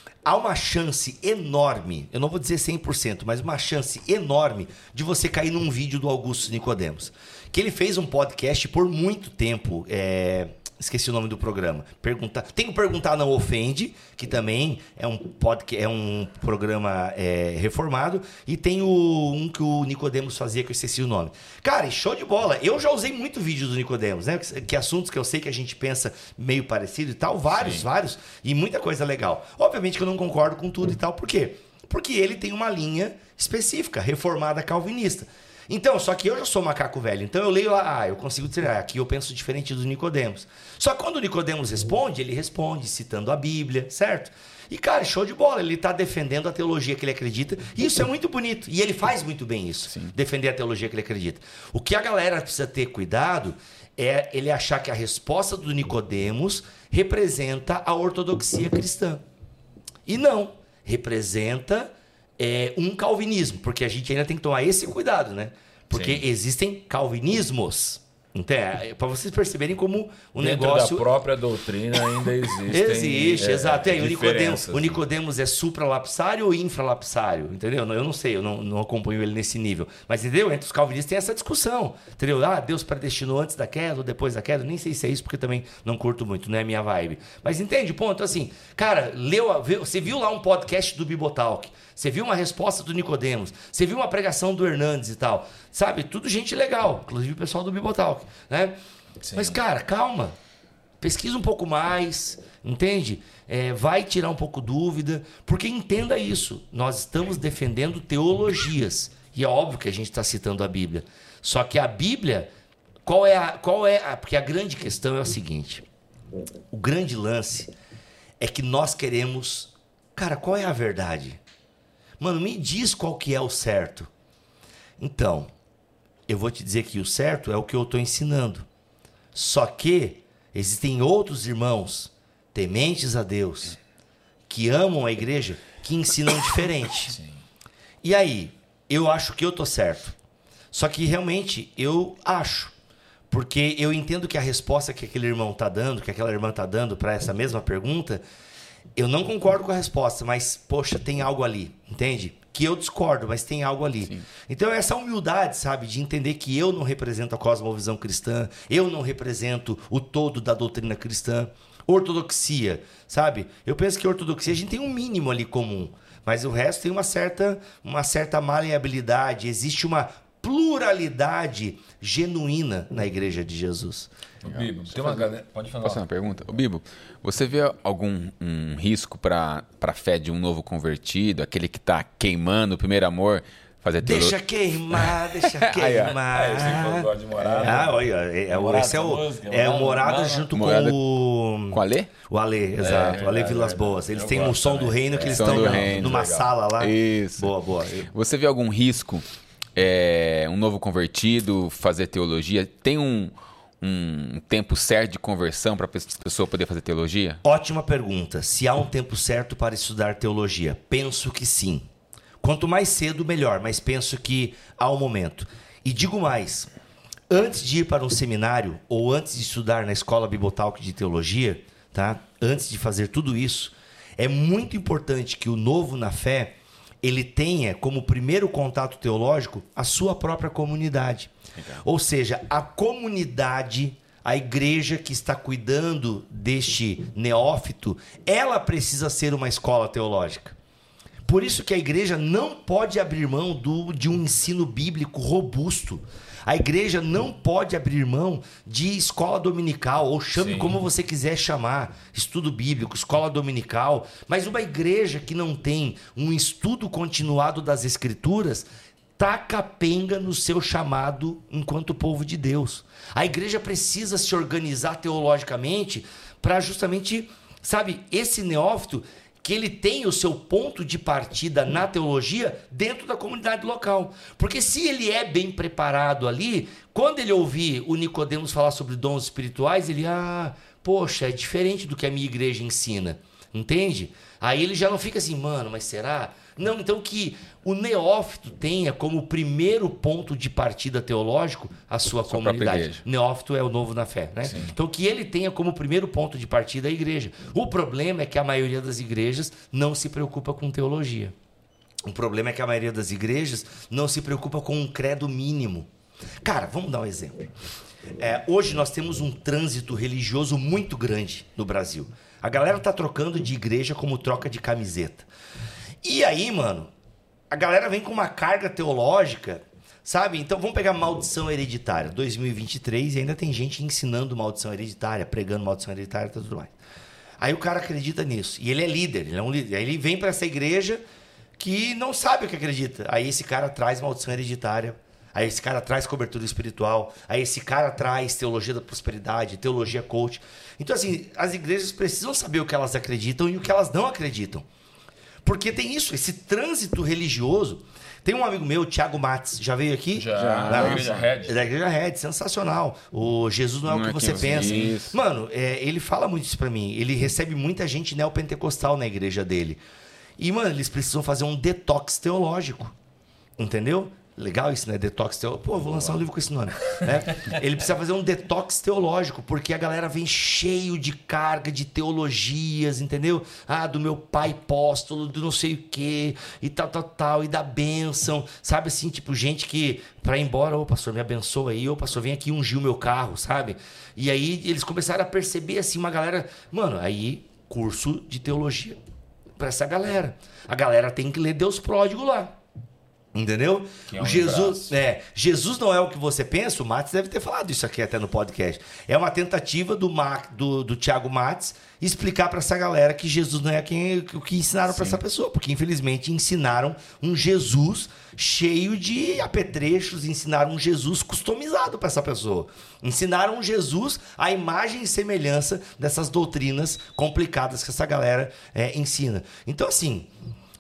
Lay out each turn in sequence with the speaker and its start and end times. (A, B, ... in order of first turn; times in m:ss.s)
0:00.3-0:59.2 A
1:00.1-1:11.1 A
1:05.9-1:06.2 B
1:10.4-1:15.0 B
1:12.7-1:38.8 A
1:39.2-1:39.6 B
1:39.4-1:40.3 A
1:41.0-1:52.5 A
1:53.1-1:55.8 A
1:56.7-1:57.7 A
1:58.4-2:01.4 A
2:02.2-2:04.1 A
2:05.0-2:05.5 A
2:06.3-2:08.7 A
2:09.4-2:13.8 A
2:14.5-2:17.2 A
2:17.1-2:17.4 B
2:18.0-2:20.1 A
2:20.7-2:22.7 A
2:23.3-2:28.2 A
2:29.0-2:54.1 A
2:54.4-2:56.0 B
2:54.5-2:55.3 C
2:55.8-3:04.4 C
3:04.0-3:07.1 A
3:04.9-3:06.2 C
3:06.0-3:10.5 B
3:07.4-3:07.8 C
3:07.6-3:18.1 A
3:10.5-3:11.0 C
3:11.7-3:12.1 C
3:12.8-3:16.5 B
3:15.3-3:16.3 C
3:16.8-3:17.5 C
3:18.1-3:19.2 C
3:19.8-3:27.4 C
3:27.4-3:31.9 A
3:32.4-3:36.7 A
3:37.3-4:00.6 A
4:01.2-5:01.3 A
4:10.4-4:10.8 B
4:52.3-4:53.0 C
4:54.4-4:54.8 B
5:02.0-5:05.9 A
5:06.4-5:07.5 A
5:08.2-5:15.3 A
5:16.0-5:16.9 A
5:17.5-5:26.7 A
5:27.4-5:31.0 A
5:31.6-5:44.6 A
5:45.4-5:59.8 A
5:50.1-5:51.7 B
5:50.4-5:51.3 C
5:53.9-5:55.2 C
5:54.5-5:55.0 B
6:00.4-6:02.9 A
6:03.6-6:29.0 A
6:29.6-6:32.5 A
6:33.4-7:00.3 A
6:34.1-6:34.9 B